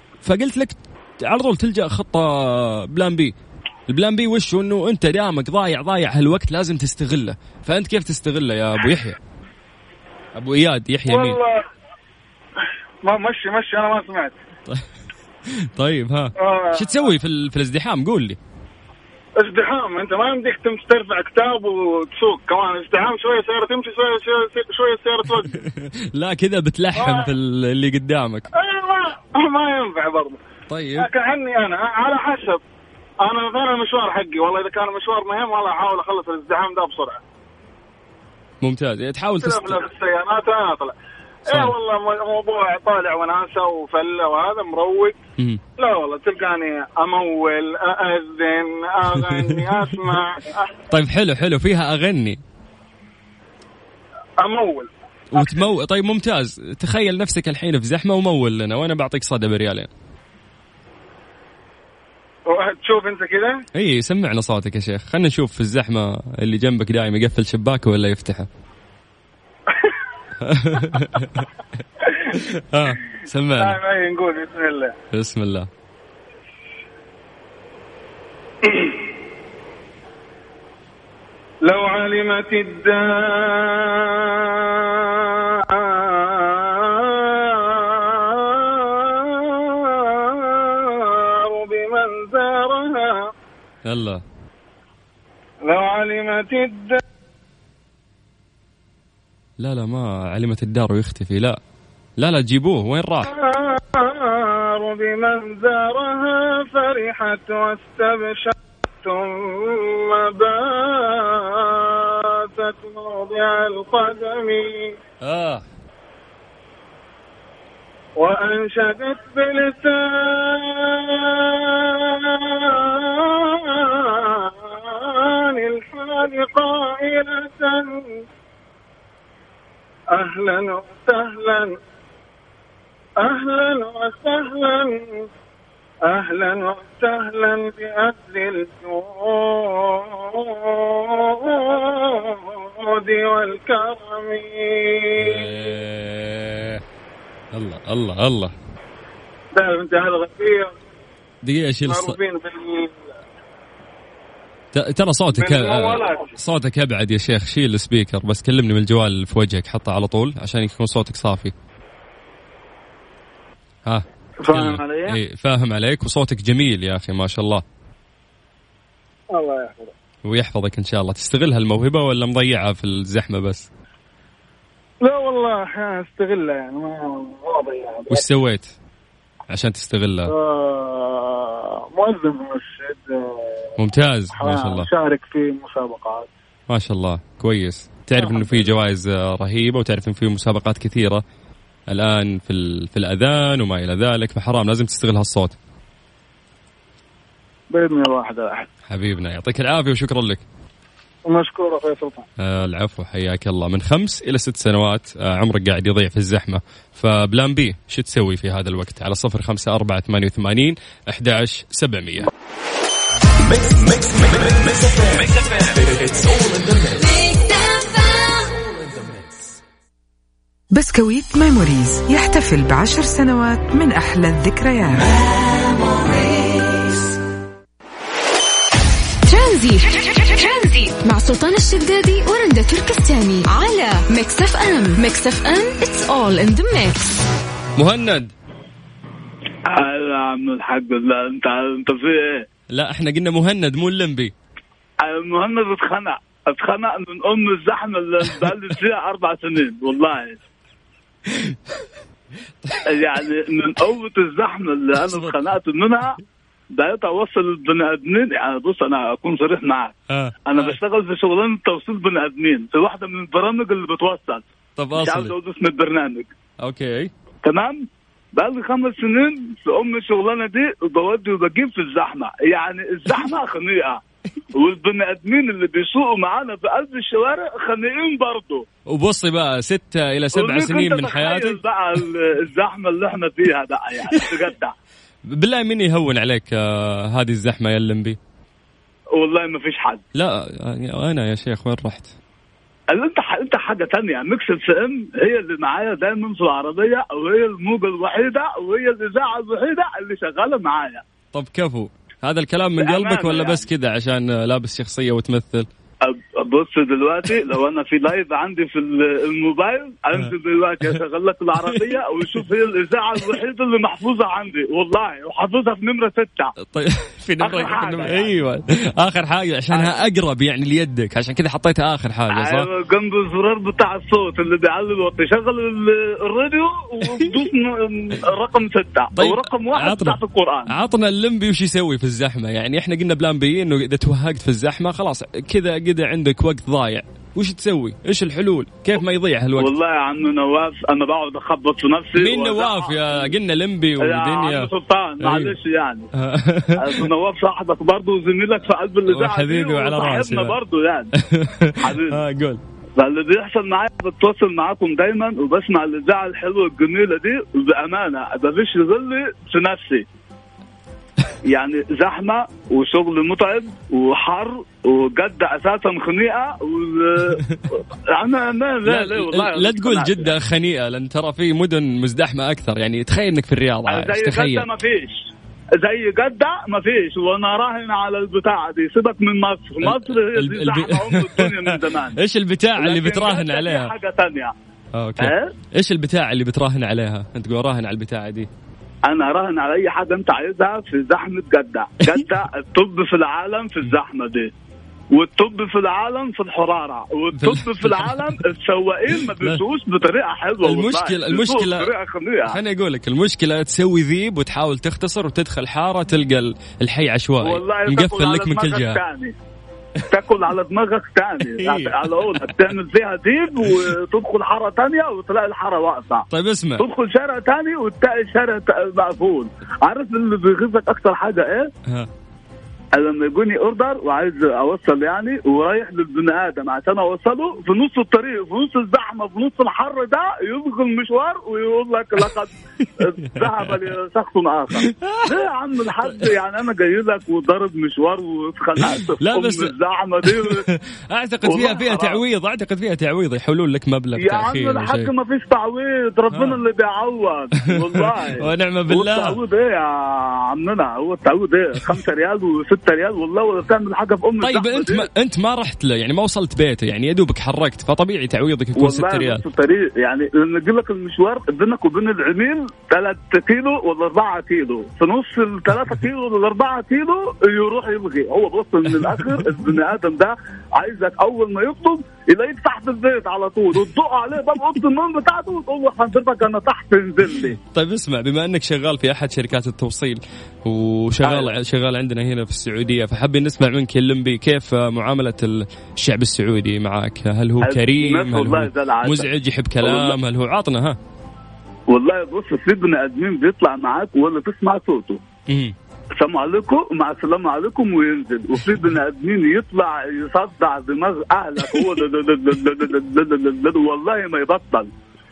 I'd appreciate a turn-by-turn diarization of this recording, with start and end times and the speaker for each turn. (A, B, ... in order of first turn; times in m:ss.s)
0:00.2-0:03.3 A
0:03.9-0:09.2 A
0:10.3-0:11.4 A
0:11.1-0:11.6 B
0:13.0-0:14.3 B
0:15.8-0:18.4 A
0:16.4-0:17.1 B
0:19.4-0:25.6 B
0:25.5-0:28.5 A
0:27.0-0:27.3 B
0:28.6-0:30.4 B
0:30.7-0:31.1 A
0:31.0-0:32.6 B
0:33.2-0:37.2 B
0:38.6-0:39.8 A
0:39.4-0:41.0 B
0:41.5-0:45.2 B
0:41.5-0:41.7 A
0:45.8-0:50.7 B
0:49.2-0:50.0 A
0:50.9-0:52.4 A
0:54.4-0:55.6 B
0:55.3-0:59.9 A
1:02.5-1:03.6 B
1:03.7-1:08.5 A
1:10.4-1:11.4 A
1:12.3-1:13.8 A
1:13.6-1:14.9 B
1:15.1-1:15.7 A
1:18.6-1:18.9 B
1:21.6-1:33.3 B
1:33.8-1:34.2 A
1:35.6-1:37.0 B
1:39.6-1:41.6 A
1:42.2-1:43.3 A
1:43.3-1:54.9 B
1:55.2-1:55.6 A
1:58.2-2:08.1 B
2:10.1-2:11.8 B
2:13.2-2:15.3 B
2:16.1-2:25.6 B
2:25.2-2:26.8 A
2:27.5-2:28.5 A
2:29.5-2:30.7 B
2:31.4-2:32.2 A
2:31.9-2:32.9 B
2:34.7-2:41.5 A
2:35.3-2:36.3 B
2:43.8-2:47.6 A
2:44.4-2:45.2 B
2:49.3-2:49.9 B
2:50.2-2:53.7 A
2:55.0-2:58.2 B
2:58.1-2:58.7 A
2:59.5-3:00.3 A
3:00.3-3:03.5 B
3:03.8-3:04.9 A
3:04.3-3:06.3 B
3:06.7-3:11.2 A
3:08.2-3:08.7 B
3:11.9-3:15.6 A
3:17.7-3:18.6 B
3:18.9-3:20.4 A
3:21.2-3:22.2 B
3:22.4-3:32.3 A
3:36.1-3:37.0 A
3:40.7-3:45.1 C
3:49.2-3:57.2 D
3:57.8-3:58.3 A
3:59.7-4:02.4 E
4:02.7-4:04.3 A
4:05.0-4:10.4 E
4:11.3-4:11.6 A
4:12.8-4:16.1 E
4:15.0-4:15.4 A
4:16.8-4:26.3 E
4:20.1-4:20.8 A
4:24.8-4:25.3 A
4:26.6-4:27.1 A
4:27.4-4:27.8 E
4:28.4-4:34.0 E
4:34.5-4:38.6 E
4:38.9-4:41.6 A
4:40.3-4:44.7 E
4:45.3-4:48.2 A
4:49.2-4:50.0 E
4:50.1-4:52.1 A
4:52.9-5:01.0 E
5:01.3-5:05.7 A
5:02.8-5:03.6 E
5:06.0-5:16.5 E
5:16.6-5:22.7 A
5:17.4-5:18.3 E
5:19.7-5:20.0 E
5:22.4-5:30.7 E
5:29.2-5:39.7 A
5:39.6-5:43.3 E
5:42.2-5:44.7 A
5:44.0-5:46.1 E
5:45.2-5:45.6 A
5:46.1-5:47.0 A
5:46.8-5:51.1 E
5:49.1-5:50.6 A
5:51.1-5:52.6 A
5:51.8-5:52.2 E
5:53.0-6:00.0 E
6:01.4-6:10.3 E
6:08.8-6:14.7 A
6:13.9-6:22.2 E
6:19.8-6:23.9 A
6:22.8-6:24.5 E
6:24.9-6:28.5 A
6:25.2-6:25.6 E
6:29.1-6:34.5 E
6:35.1-6:42.6 E
6:37.4-6:38.3 A
6:39.3-6:39.6 A
6:40.6-6:41.9 A
6:42.5-6:49.0 A
6:47.4-6:49.3 E
6:50.1-6:56.2 E
6:51.5-6:52.7 A
6:56.3-6:56.8 A
6:56.8-7:01.7 E
7:02.9-7:20.6 E
7:13.4-7:13.7 A
7:14.8-7:15.3 A
7:18.8-7:19.7 A
7:20.2-7:25.1 A
7:21.4-7:22.2 E
7:24.2-7:35.1 E
7:26.3-7:26.6 A
7:27.7-7:29.4 A
7:34.4-7:39.4 A
7:38.8-7:57.6 E
7:48.9-7:49.4 A
7:57.7-8:11.0 A
8:01.2-8:01.5 E
8:07.6-8:09.3 E
8:09.8-8:10.2 E
8:11.9-8:15.2 E
8:15.5-8:15.7 A
8:16.2-8:24.9 E